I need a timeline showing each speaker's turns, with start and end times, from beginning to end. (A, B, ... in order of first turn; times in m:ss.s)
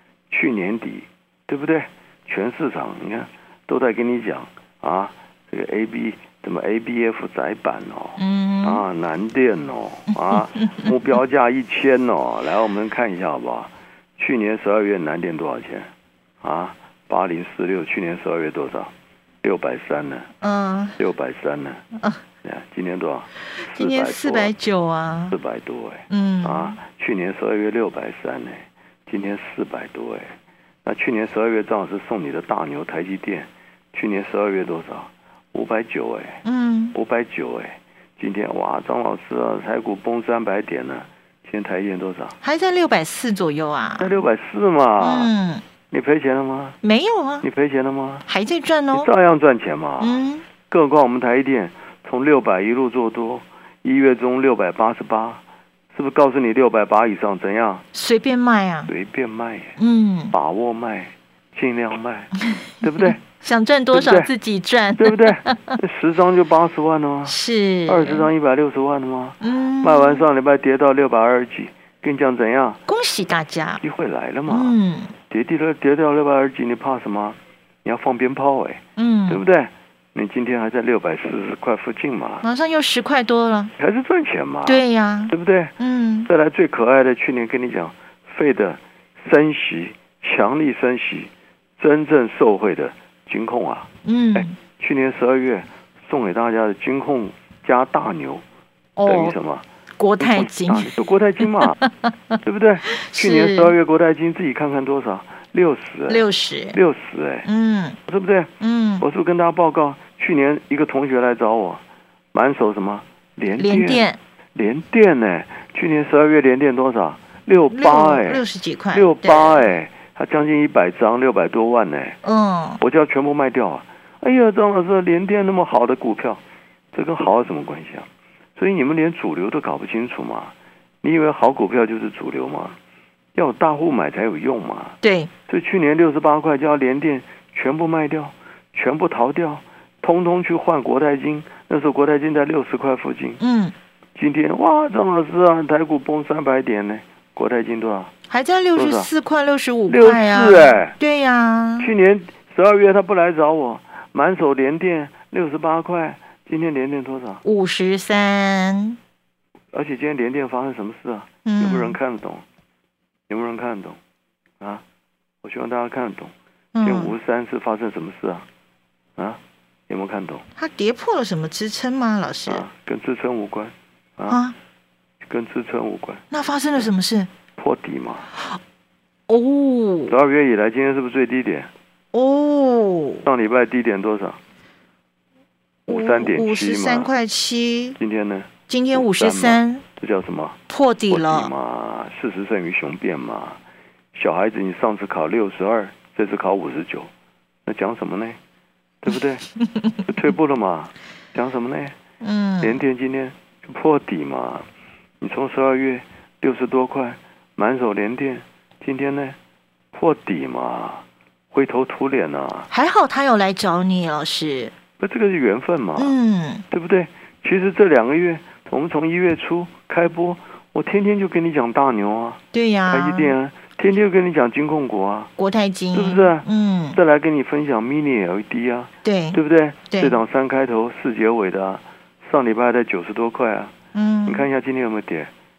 0:00.3-0:20.3 A
0:08.2-0:08.8 B
0:20.4-0:21.0 B
0:21.0-0:21.8 A
0:22.4-0:24.5 A
0:23.6-0:25.4 B
0:25.3-0:36.4 A
0:26.1-0:26.8 B
0:36.4-0:37.0 B
0:36.9-0:42.4 A
0:42.4-0:44.1 B
0:44.0-0:45.3 A
0:45.0-0:45.6 B
0:45.9-0:46.8 A
0:46.8-0:47.4 B
0:47.4-0:48.3 A
0:48.3-0:49.1 B
0:48.9-0:57.8 A
0:50.0-0:50.4 B
0:57.9-0:58.9 B
0:58.9-0:59.8 A
0:59.8-1:00.4 B
1:00.3-1:03.2 A
1:03.0-1:05.8 B
1:03.9-1:04.3 A
1:05.0-1:12.8 A
1:07.3-1:08.3 B
1:09.4-1:10.3 B
1:12.9-1:13.8 B
1:13.8-1:14.8 A
1:14.5-1:15.1 B
1:15.3-1:22.4 A
1:19.0-1:19.4 B
1:22.4-1:23.7 B
1:23.8-1:25.8 A
1:24.7-1:26.3 B
1:26.3-1:38.4 A
1:34.0-1:34.6 B
1:39.0-1:39.4 B
1:39.0-1:39.7 A
1:40.0-1:40.9 B
1:40.2-1:41.8 A
1:41.8-1:42.4 B
1:42.4-1:47.5 A
1:42.9-1:43.7 B
1:46.1-1:46.8 B
1:47.4-1:48.0 B
1:48.1-2:02.2 A
1:48.6-1:49.0 B
1:53.6-1:54.2 B
1:57.7-1:59.7 B
2:02.2-2:02.8 B
2:02.8-2:06.4 A
2:06.9-2:12.8 A
2:13.4-2:23.4 A
2:15.0-2:15.3 B
2:23.4-2:23.7 B
2:24.2-2:28.1 A
2:28.3-2:31.9 B
2:28.8-2:29.1 A
2:29.9-2:31.0 A
2:31.8-2:37.4 A
2:37.4-2:39.0 B
2:39.7-2:42.4 A
2:41.4-2:42.0 B
2:43.3-2:44.0 A
2:45.4-2:48.5 A
2:46.8-2:47.2 B
2:49.2-2:50.4 A
2:50.6-2:52.7 B
2:52.5-2:54.4 A
2:54.3-2:54.6 B
2:55.2-2:56.2 A
2:56.3-2:57.3 B
2:57.6-2:58.3 A
2:59.3-3:00.1 B
3:00.1-3:01.7 A
3:02.1-3:03.2 B
3:03.2-3:04.4 A
3:05.9-3:08.0 B
3:05.9-3:07.1 A
3:08.0-3:13.6 A
3:08.7-3:09.8 B
3:10.7-3:11.5 B
3:14.1-3:17.1 A
3:17.7-3:18.4 A
3:19.0-3:19.5 A
3:20.1-3:22.0 A
3:22.2-3:22.8 B
3:22.6-3:24.7 A
3:25.2-3:29.4 A
3:29.9-3:32.7 A
3:32.7-3:34.7 B
3:35.0-3:36.2 A
3:36.0-3:36.6 B
3:36.7-3:45.3 A
3:42.5-3:43.4 B
3:45.4-3:47.0 B
3:45.9-3:53.7 A
3:49.0-3:50.2 B
3:53.9-3:54.5 B
3:54.3-3:55.3 A